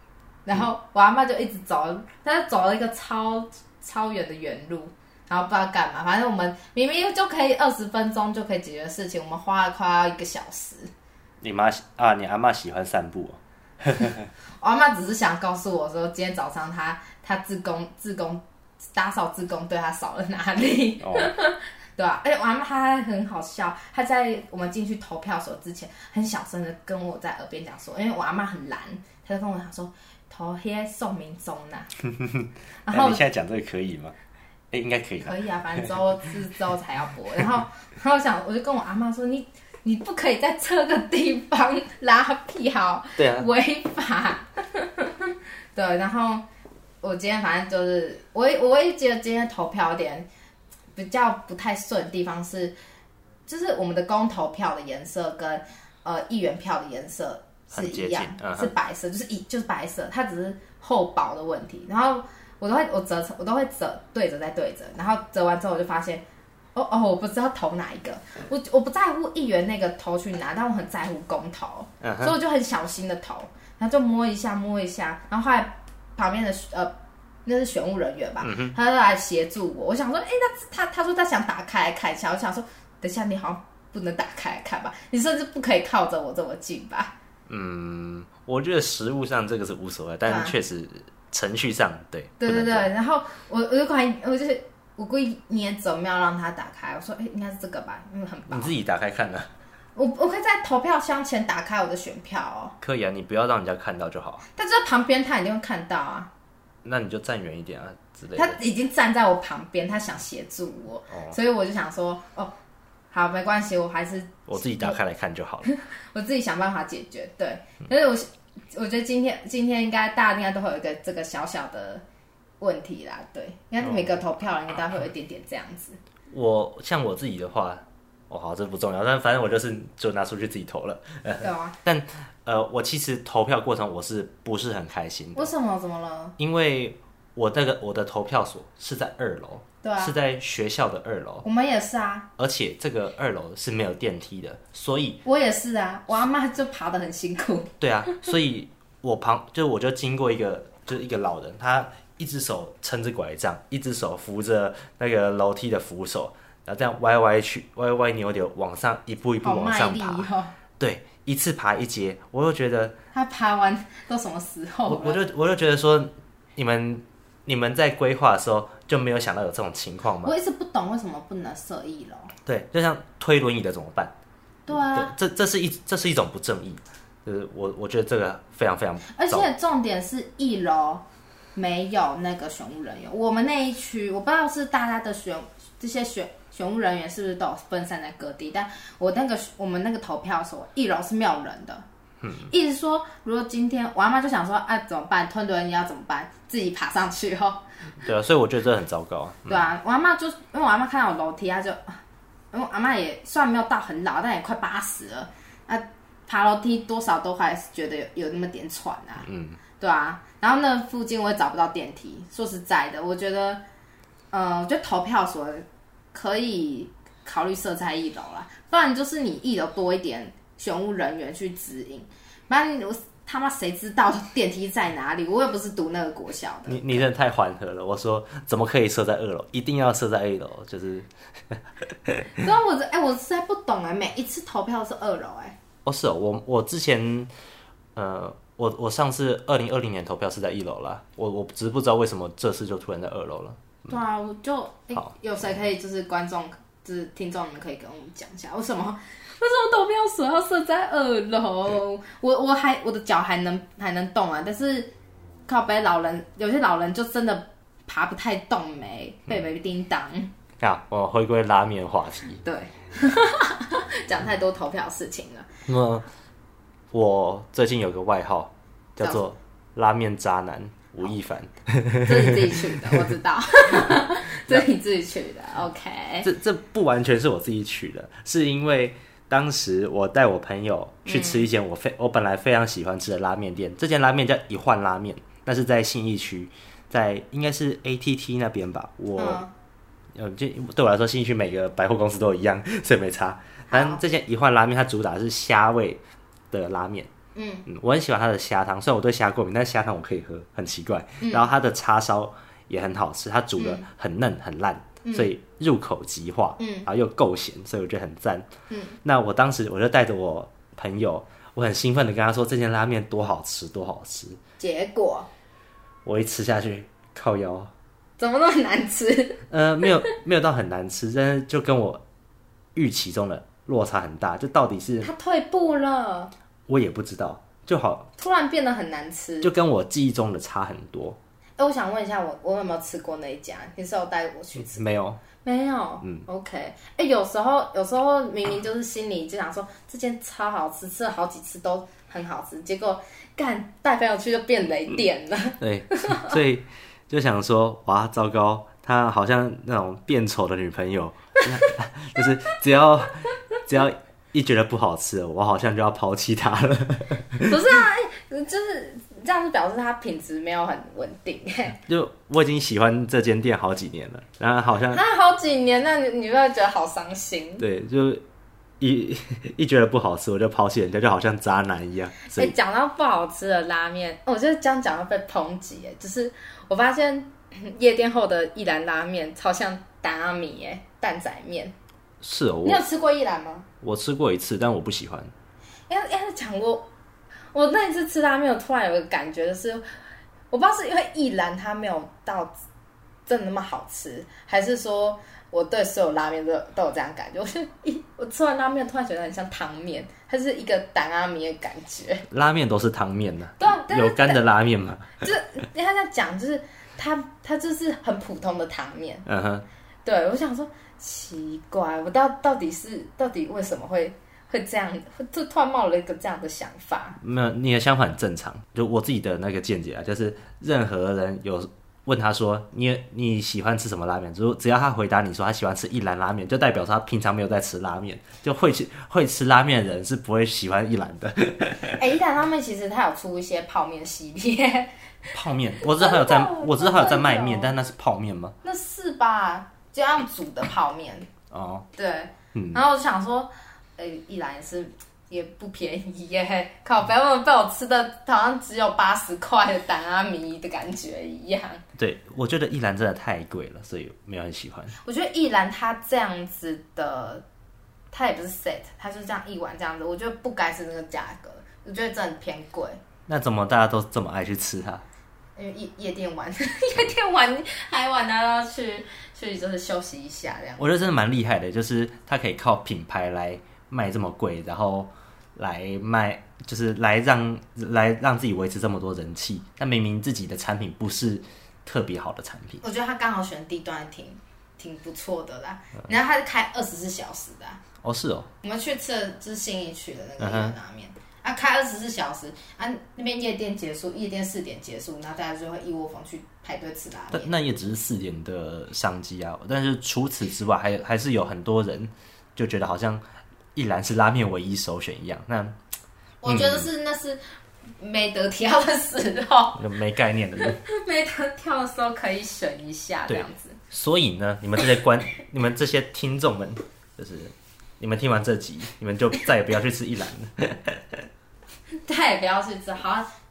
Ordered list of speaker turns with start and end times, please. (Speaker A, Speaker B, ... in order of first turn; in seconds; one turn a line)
Speaker A: 0.5-10.9
Speaker B: 11.4-14.3
Speaker A: 14.6-18.4
Speaker A: 18.9-31.9
Speaker B: 21.0-21.3
Speaker B: 32.1-34.1
Speaker A: 32.9-33.2
Speaker B: 34.7-35.9
Speaker A: 35.2-46.4
Speaker B: 43.2-43.5
Speaker A: 47.0-50.3
Speaker A: 50.9-52.7
Speaker A: 53.5-66.2
Speaker B: 57.7-58.7
Speaker A: 66.7-76.9
Speaker B: 72.0-72.3
Speaker A: 77.4-87.1
Speaker B: 78.4-78.8
Speaker B: 87.5-92.9
Speaker A: 90.2-90.5
Speaker A: 92.4-98.7
Speaker B: 98.5-99.5
Speaker A: 99.9-102.8
Speaker B: 102.8-104.4
Speaker A: 104.5-106.3
Speaker B: 106.8-108.6
Speaker A: 108.3-112.5
Speaker A: 113.1-115.0
Speaker B: 114.5-115.7
Speaker A: 115.6-122.0
Speaker A: 122.6-126.0
Speaker B: 123.8-124.2
Speaker B: 126.3-135.5
Speaker A: 131.4-131.8
Speaker A: 135.3-136.3
Speaker B: 136.4-141.4
Speaker A: 139.8-140.1
Speaker A: 141.4-142.3
Speaker B: 142.4-145.2
Speaker A: 145.2-148.2
Speaker B: 147.8-160.3
Speaker A: 159.4-160.5
Speaker B: 160.8-162.9
Speaker A: 163.1-165.2
Speaker B: 164.8-170.3
Speaker A: 170.2-172.3
Speaker B: 172.4-174.1
Speaker A: 174.7-175.1
Speaker B: 174.7-179.5
Speaker A: 179.1-181.0
Speaker A: 181.5-191.8
Speaker A: 192.4-197.6
Speaker B: 198.0-199.7
Speaker A: 199.5-202.0
Speaker A: 202.5-209.3
Speaker B: 209.2-209.6
Speaker A: 209.8-213.6
Speaker A: 214.3-227.1
Speaker B: 226.7-232.4
Speaker A: 232.3-235.6
Speaker B: 235.8-237.3
Speaker B: 237.9-243.9
Speaker A: 243.9-254.9
Speaker A: 255.5-260.3
Speaker B: 260.6-262.4
Speaker A: 262.4-265.5
Speaker B: 265.7-266.1
Speaker B: 266.9-273.0
Speaker A: 272.0-276.3
Speaker B: 273.7-274.0
Speaker B: 276.2-289.4
Speaker A: 281.1-281.4
Speaker A: 289.2-289.5
Speaker B: 290.1-297.1
Speaker A: 293.7-294.0
Speaker A: 297.3-297.6
Speaker B: 297.6-308.5
Speaker A: 301.2-301.5
Speaker A: 303.6-303.9
Speaker A: 305.0-305.3
Speaker A: 306.6-306.9
Speaker A: 308.7-309.0
Speaker B: 309.0-314.4
Speaker A: 314.6-315.3
Speaker B: 316.0-317.7
Speaker A: 318.2-319.4
Speaker B: 319.5-322.0
Speaker B: 322.7-325.1
Speaker A: 325.0-326.3
Speaker B: 326.7-328.1
Speaker A: 328.2-329.5
Speaker B: 329.4-331.2
Speaker A: 331.6-334.8
Speaker B: 334.6-335.2
Speaker A: 335.4-346.4
Speaker B: 345.6-357.6
Speaker A: 357.4-361.8
Speaker B: 361.8-365.0
Speaker A: 364.9-367.6
Speaker B: 367.6-368.2
Speaker B: 368.8-372.5
Speaker A: 372.3-381.7
Speaker B: 382.2-382.8
Speaker A: 382.6-383.7
Speaker B: 383.8-385.3
Speaker A: 385.9-386.9
Speaker A: 387.5-389.8
Speaker A: 390.5-392.5
Speaker A: 393.3-402.2
Speaker B: 402.3-405.2
Speaker A: 403.6-404.4
Speaker A: 405.2-409.2
Speaker B: 409.2-409.6
Speaker A: 410.0-417.2
Speaker B: 417.2-432.0
Speaker A: 431.9-435.3
Speaker B: 435.3-438.6
Speaker A: 435.8-437.7
Speaker A: 438.6-441.3
Speaker B: 441.5-441.9
Speaker A: 441.9-451.8
Speaker B: 442.5-442.8
Speaker B: 452.0-454.9
Speaker A: 454.9-457.4
Speaker A: 458.1-463.0
Speaker B: 463.3-465.0
Speaker A: 465.6-470.9
Speaker B: 470.8-482.8
Speaker A: 482.8-487.8
Speaker B: 488.0-488.5
Speaker A: 488.6-497.5
Speaker B: 490.4-490.8
Speaker B: 497.3-503.2
Speaker B: 503.7-505.8
Speaker A: 506.4-507.4
Speaker B: 506.4-506.9
Speaker A: 508.0-509.9
Speaker B: 509.7-510.8
Speaker A: 510.6-513.8
Speaker B: 513.3-521.2
Speaker A: 522.0-523.3